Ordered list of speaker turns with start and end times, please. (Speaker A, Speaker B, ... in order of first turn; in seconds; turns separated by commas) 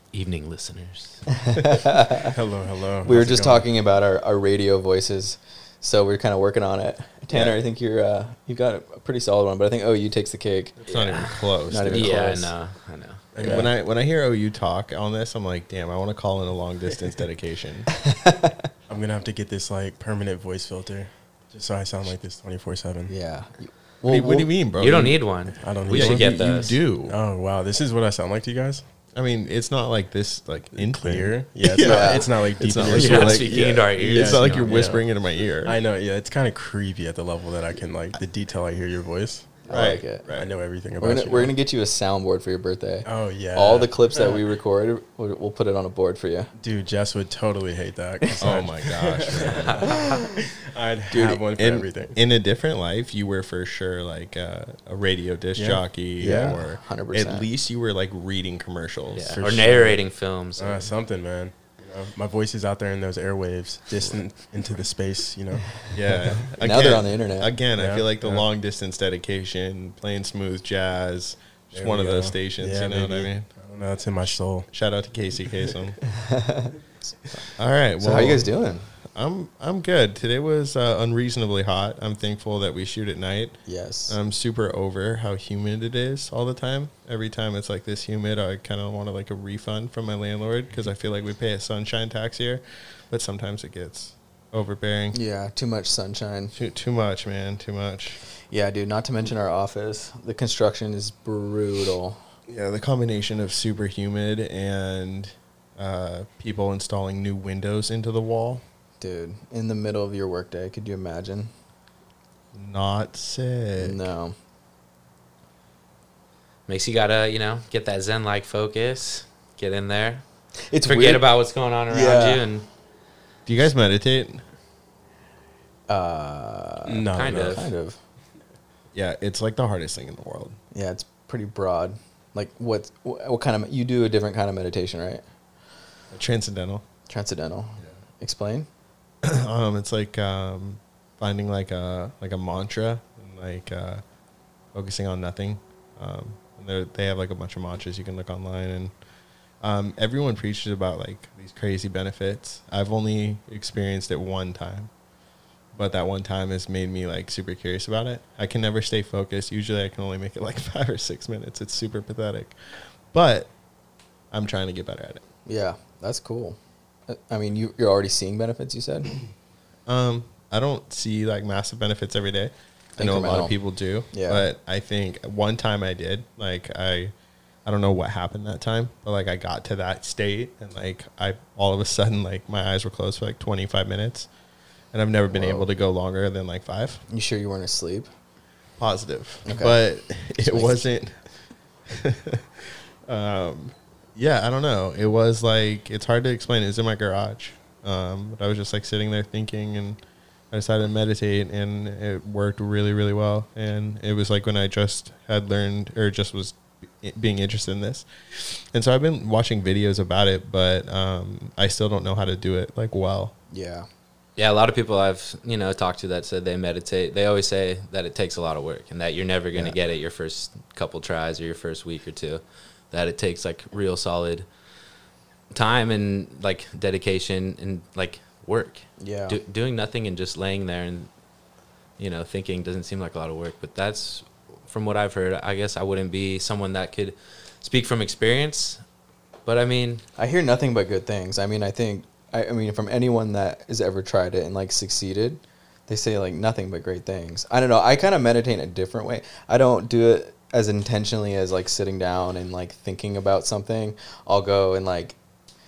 Speaker A: 0.1-1.2, Speaker B: 1.3-2.3, Speaker C: 2.2-3.6, Speaker B: 3.0-10.8, Speaker D: 7.3-7.6, Speaker D: 10.9-12.2, Speaker A: 10.9-13.3, Speaker B: 11.7-12.5, Speaker C: 13.3-13.7, Speaker D: 13.4-17.9, Speaker B: 13.4-13.7, Speaker B: 18.0-18.7, Speaker C: 18.9-23.1, Speaker B: 23.1-24.6, Speaker D: 24.1-25.2, Speaker A: 24.8-26.8, Speaker C: 25.6-26.3, Speaker D: 25.9-27.2, Speaker C: 27.1-28.8, Speaker D: 29.1-35.8, Speaker C: 30.7-35.0, Speaker B: 31.8-32.3, Speaker A: 32.8-34.8, Speaker C: 35.6-39.6, Speaker B: 39.6-40.3, Speaker D: 39.7-40.5, Speaker C: 40.3-41.5, Speaker B: 41.0-46.5, Speaker C: 43.0-44.4, Speaker C: 46.6-52.2, Speaker D: 48.4-50.0, Speaker A: 49.5-50.0, Speaker D: 51.1-59.4, Speaker C: 55.6-56.5, Speaker B: 56.2-57.5, Speaker A: 59.1-60.9, Speaker C: 59.3-60.0, Speaker C: 60.6-65.8, Speaker D: 65.9-73.5, Speaker B: 66.4-67.5, Speaker C: 67.7-68.5, Speaker C: 71.7-74.7, Speaker D: 74.7-76.0, Speaker B: 76.1-76.7, Speaker D: 77.5-78.5, Speaker B: 78.0-78.9, Speaker D: 79.1-95.2, Speaker B: 83.7-84.2, Speaker B: 95.1-96.5, Speaker D: 96.5-98.2, Speaker B: 98.5-102.2, Speaker D: 102.5-108.6, Speaker B: 109.0-111.5, Speaker D: 112.5-114.0, Speaker B: 113.8-114.3, Speaker A: 116.7-120.2, Speaker B: 120.7-121.3, Speaker A: 120.8-122.7, Speaker B: 121.9-122.5, Speaker D: 123.5-124.4, Speaker B: 125.9-128.0, Speaker C: 126.9-127.7, Speaker A: 127.1-127.7, Speaker D: 128.9-130.6, Speaker B: 130.7-135.2, Speaker D: 136.1-136.8, Speaker B: 137.1-138.7, Speaker D: 139.2-144.0, Speaker D: 144.7-148.9, Speaker D: 149.6-154.9, Speaker D: 155.7-162.6, Speaker D: 163.1-163.5, Speaker D: 164.3-165.2, Speaker B: 165.4-169.2, Speaker D: 169.9-177.1, Speaker B: 173.0-173.6, Speaker B: 174.1-174.5, Speaker D: 177.6-184.3, Speaker D: 184.9-187.0, Speaker B: 185.3-185.7, Speaker B: 187.1-188.1, Speaker D: 188.8-191.1, Speaker B: 189.4-189.8, Speaker B: 190.4-190.9, Speaker D: 191.9-200.0, Speaker D: 200.5-213.3, Speaker B: 213.5-213.9, Speaker A: 214.4-224.4, Speaker A: 225.5-231.1, Speaker B: 229.0-229.4, Speaker A: 232.0-238.8, Speaker A: 239.4-240.0, Speaker B: 240.2-255.2